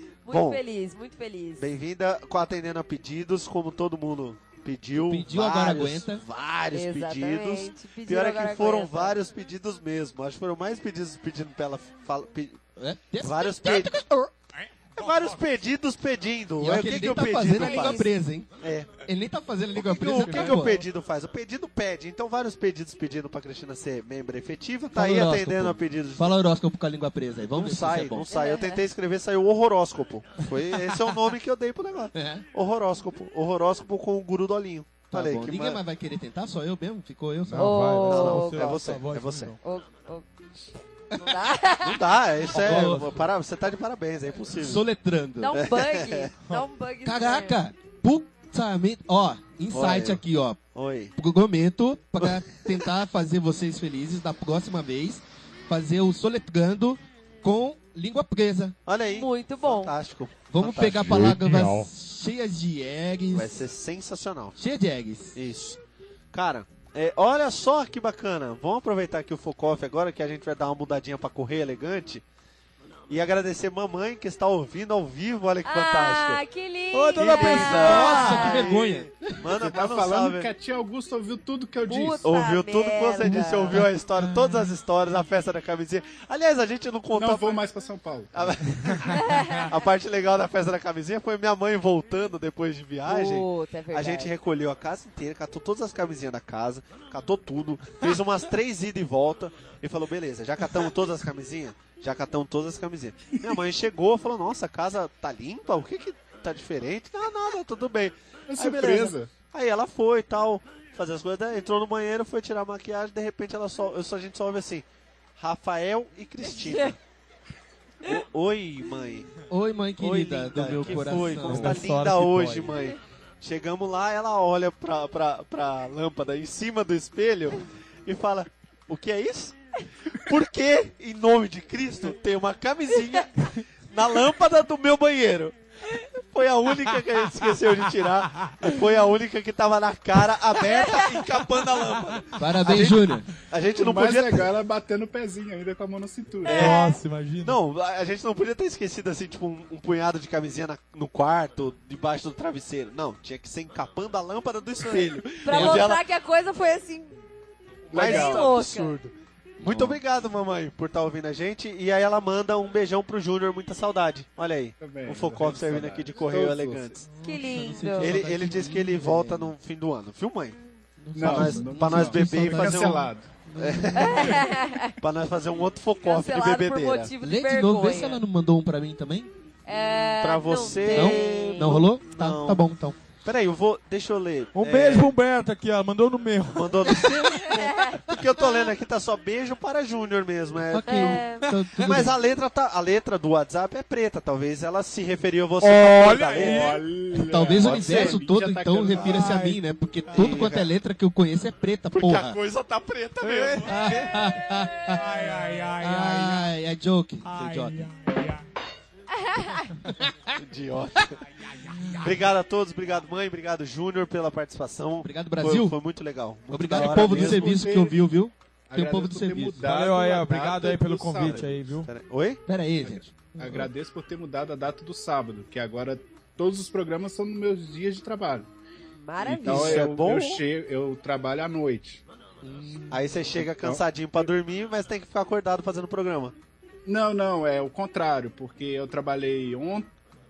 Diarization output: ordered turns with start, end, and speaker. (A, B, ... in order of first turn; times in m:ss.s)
0:00.2-0:01.6 A
0:00.3-0:00.6 B
0:01.6-0:12.6 B
0:04.9-0:06.2 C
0:06.7-0:09.2 A
0:12.8-0:14.3 C
0:13.2-0:14.0 B
0:14.6-0:15.4 D
0:14.9-0:18.0 B
0:16.6-0:18.5 C
0:17.3-0:18.1 A
0:18.6-0:19.0 B
0:19.0-0:20.8 C
0:19.7-0:26.4 B
0:20.3-0:20.7 D
0:24.9-0:28.3 C
0:27.5-0:35.8 B
0:28.3-0:28.8 A
0:32.1-0:32.4 C
0:35.1-0:38.0 C
0:37.4-0:39.6 D
0:37.6-0:38.8 A
0:38.0-0:39.6 B
0:39.6-0:40.2 A
0:41.1-0:42.0 A
0:41.8-0:44.8 B
0:42.5-0:43.3 D
0:42.5-0:43.3 C
0:44.6-0:45.6 C
0:45.4-0:47.6 A
0:45.5-0:46.3 B
0:47.0-0:50.6 C
0:49.7-0:50.2 B
0:50.7-0:51.1 B
0:51.2-0:58.7 C
0:52.2-0:52.7 B
0:58.8-1:01.1 B
0:59.1-0:59.9 A
1:00.5-1:03.7 C
1:01.0-1:01.9 D
1:03.3-1:04.6 B
1:04.6-1:05.4 C
1:05.3-1:05.8 B
1:06.3-1:12.2 B
1:13.1-1:16.4 B
1:15.6-1:18.5 A
1:16.9-1:18.6 D
1:17.2-1:20.5 B
1:17.7-1:19.5 C
1:19.6-1:22.4 E
1:21.8-1:23.8 A
1:22.2-1:27.6 B
1:23.3-1:24.7 D
1:27.1-1:28.6 E
1:28.3-1:54.8 B
1:28.8-1:29.7 D
1:29.1-1:29.7 A
1:33.0-1:34.3 A
1:48.5-1:49.3 E
1:55.4-1:57.0 B
1:56.6-1:56.9 A
1:58.0-1:59.3 B
1:59.5-2:01.8 C
2:00.0-2:09.6 B
2:00.7-2:02.8 D
2:10.1-2:24.5 B
2:18.4-2:18.7 D
2:21.1-2:22.1 D
2:22.4-2:23.3 C
2:23.8-2:26.7 E
2:26.4-2:27.0 A
2:26.5-2:26.8 B
2:26.5-2:27.6 D
2:27.4-2:36.0 B
2:34.8-2:37.2 A
2:35.5-2:35.9 C
2:37.9-2:38.5 E
2:37.9-2:38.9 A
2:37.9-2:39.0 B
2:39.6-2:40.0 C
2:39.6-2:47.0 B
2:44.8-2:47.0 E
2:47.1-2:49.5 C
2:47.2-2:48.2 A
2:48.0-2:50.6 B
2:51.0-2:54.4 C
2:51.1-2:53.3 E
2:51.2-2:54.4 B
2:54.0-2:55.0 A
2:54.9-2:57.1 B
2:56.0-2:58.2 A
2:57.2-2:59.3 C
2:59.6-3:01.8 A
3:00.2-3:02.7 B
3:00.9-3:03.0 C
3:03.2-3:05.1 B
3:04.6-3:07.2 D
3:06.6-3:11.3 B
3:06.8-3:08.3 C
3:07.4-3:08.0 A
3:10.6-3:12.2 C
3:10.8-3:11.5 A
3:11.5-3:12.0 D
3:11.8-3:16.8 B
3:15.6-3:16.8 D
3:16.3-3:19.4 E
3:17.1-3:22.4 C
3:17.6-3:18.2 B
3:19.0-3:19.6 D
3:20.1-3:20.7 B
3:21.9-3:23.8 B
3:23.2-3:26.5 D
3:23.6-3:25.1 C
3:25.8-3:27.9 C
3:27.2-3:28.4 D
3:29.2-3:29.7 A
3:30.3-3:31.2 B
3:31.4-3:32.3 D
3:32.0-3:37.6 B
3:35.0-3:35.8 C
3:36.5-3:39.7 C
3:36.8-3:38.0 E
3:38.7-3:41.7 E
3:39.6-3:41.9 D
3:41.2-3:42.4 B
3:42.5-3:43.7 C
3:42.9-3:48.5 E
3:48.9-3:49.8 A
3:49.2-3:50.4 B
3:49.4-3:52.0 E
3:52.4-3:53.3 C
3:52.9-3:56.3 B
3:53.4-3:53.8 E
3:56.8-3:59.9 E